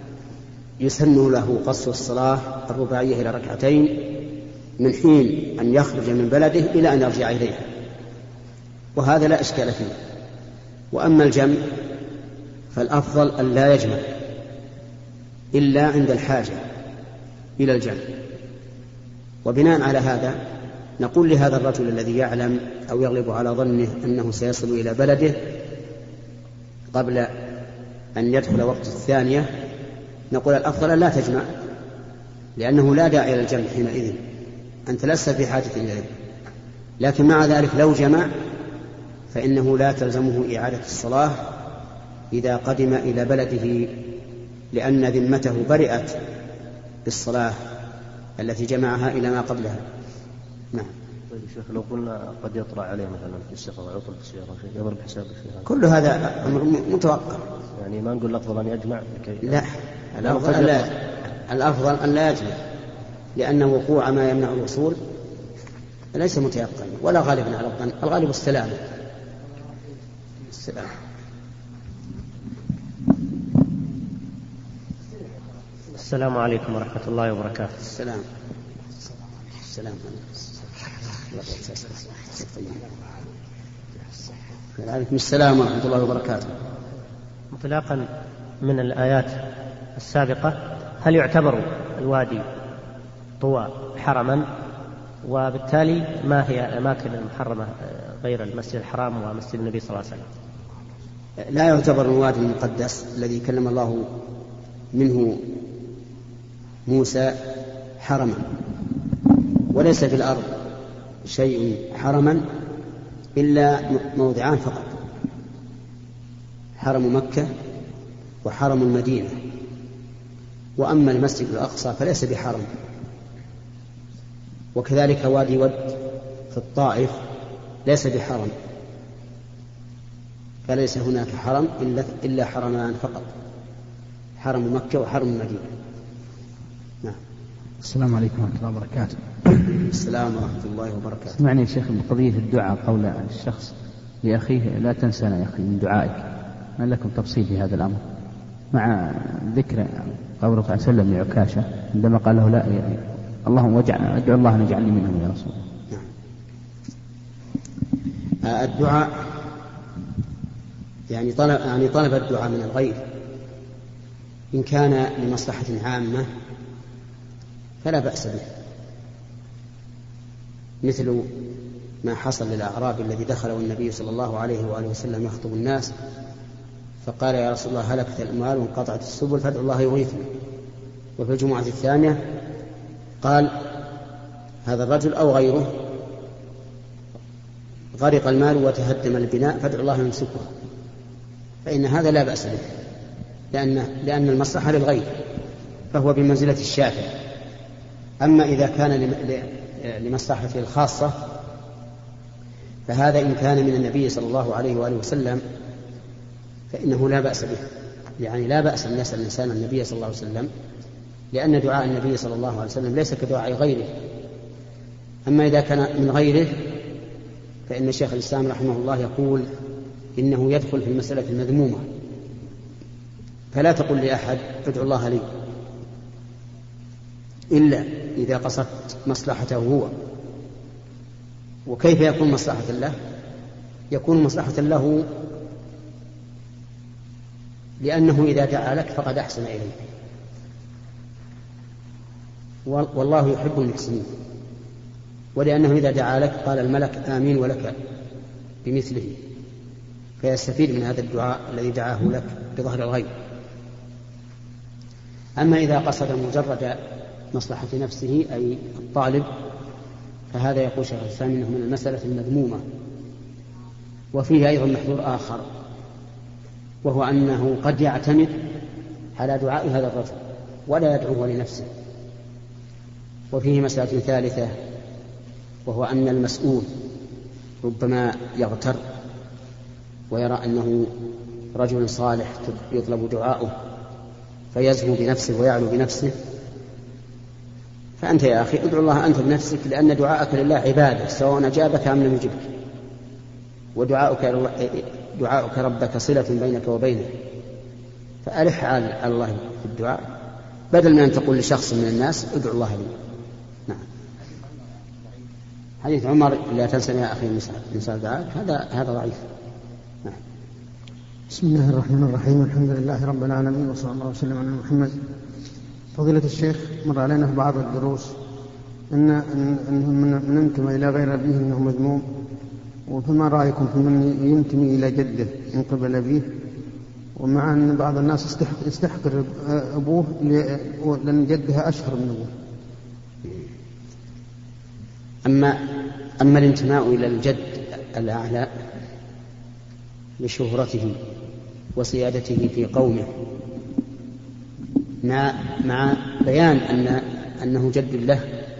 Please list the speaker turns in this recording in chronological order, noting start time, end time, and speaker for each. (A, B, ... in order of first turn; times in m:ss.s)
0:00.8-0:04.0 A
0:04.8-0:07.6 A
0:09.0-0:09.9 A
0:10.9-0:11.6 A
0:12.7-0:14.0 A
0:15.5-0:16.6 A
0:17.6-0:18.0 A
0:19.4-0:20.4 A
0:21.0-0:25.4 A
0:26.9-0:27.3 A
0:28.2-0:29.5 A
0:30.3-0:31.5 A
0:32.6-0:34.2 A
0:34.9-0:36.1 A
0:37.0-0:38.3 A
0:39.3-0:41.4 A
0:42.3-0:43.9 A
0:44.7-0:46.2 A
0:47.0-0:47.6 A
0:48.4-0:49.8 A
0:51.3-0:55.6 B
0:55.6-0:57.4 A
0:57.8-0:59.6 B
0:59.4-1:00.9 A
1:00.2-1:00.9 B
1:01.5-1:02.6 A
1:03.4-1:05.0 A
1:06.1-1:08.8 A
1:10.5-1:10.9 A
1:15.9-1:17.7 C
1:17.8-1:18.2 A
1:19.6-1:20.2 A
1:21.3-1:22.8 A
1:24.8-1:26.5 A
1:27.5-1:28.1 C
1:28.6-1:29.4 C
1:30.0-1:32.4 C
1:33.4-1:34.4 C
1:35.2-1:40.2 C
1:41.4-1:44.1 A
1:44.9-1:45.4 A
1:46.8-1:47.4 A
1:48.0-1:48.5 A
1:49.7-1:50.5 A
1:51.2-1:52.4 A
1:53.4-1:54.9 A
1:56.8-1:57.5 A
1:58.4-1:59.3 A
2:00.8-2:02.7 A
2:04.7-2:06.0 A
2:06.5-2:07.2 A
2:07.8-2:08.5 A
2:10.7-2:13.3 A
2:14.4-2:15.7 A
2:17.8-2:19.2 D
2:19.8-2:21.4 A
2:21.3-2:26.2 D
2:26.8-2:28.0 D
2:28.7-2:35.6 D
2:38.4-2:39.1 A
2:41.1-2:43.0 A
2:44.5-2:46.3 A
2:47.8-2:48.4 A
2:50.8-2:51.3 A
2:52.0-2:55.9 A
2:57.0-3:00.3 A
3:01.2-3:02.2 A
3:03.2-3:03.6 A
3:04.6-3:05.7 A
3:07.9-3:10.5 A
3:11.6-3:12.6 A
3:13.5-3:15.1 A
3:15.9-3:17.1 A
3:18.2-3:21.2 A
3:22.9-3:25.4 A
3:26.7-3:27.6 A
3:28.2-3:30.5 A
3:31.3-3:33.9 A
3:35.2-3:36.6 A
3:37.7-3:39.5 A
3:40.2-3:41.8 A
3:43.5-3:45.2 A
3:47.5-3:49.9 A
3:51.6-3:52.9 A
3:53.9-3:55.1 A
3:57.8-3:59.7 A
4:02.7-4:04.1 A
4:05.4-4:07.7 A
4:08.6-4:09.2 A
4:10.2-4:13.1 A
4:15.4-4:16.8 A
4:17.3-4:19.3 A
4:20.3-4:22.6 A
4:24.1-4:25.4 A
4:26.8-4:28.4 A
4:29.2-4:31.7 A
4:33.3-4:34.5 A
4:35.6-4:36.7 A
4:37.6-4:38.8 A
4:40.1-4:40.9 A
4:41.5-4:43.5 A
4:44.5-4:46.1 A
4:48.0-4:52.5 A
4:53.8-4:57.1 A
4:58.2-5:00.0 A
5:00.7-5:02.9 A
5:05.8-5:09.2 A
5:11.4-5:14.8 E
5:16.0-5:18.0 E
5:18.9-5:22.0 E
5:22.9-5:26.2 E
5:27.2-5:30.2 E
5:31.0-5:32.2 E
5:35.2-5:35.6 A
5:36.2-5:38.5 A
5:40.2-5:41.0 A
5:41.8-5:43.1 A
5:45.0-5:48.2 A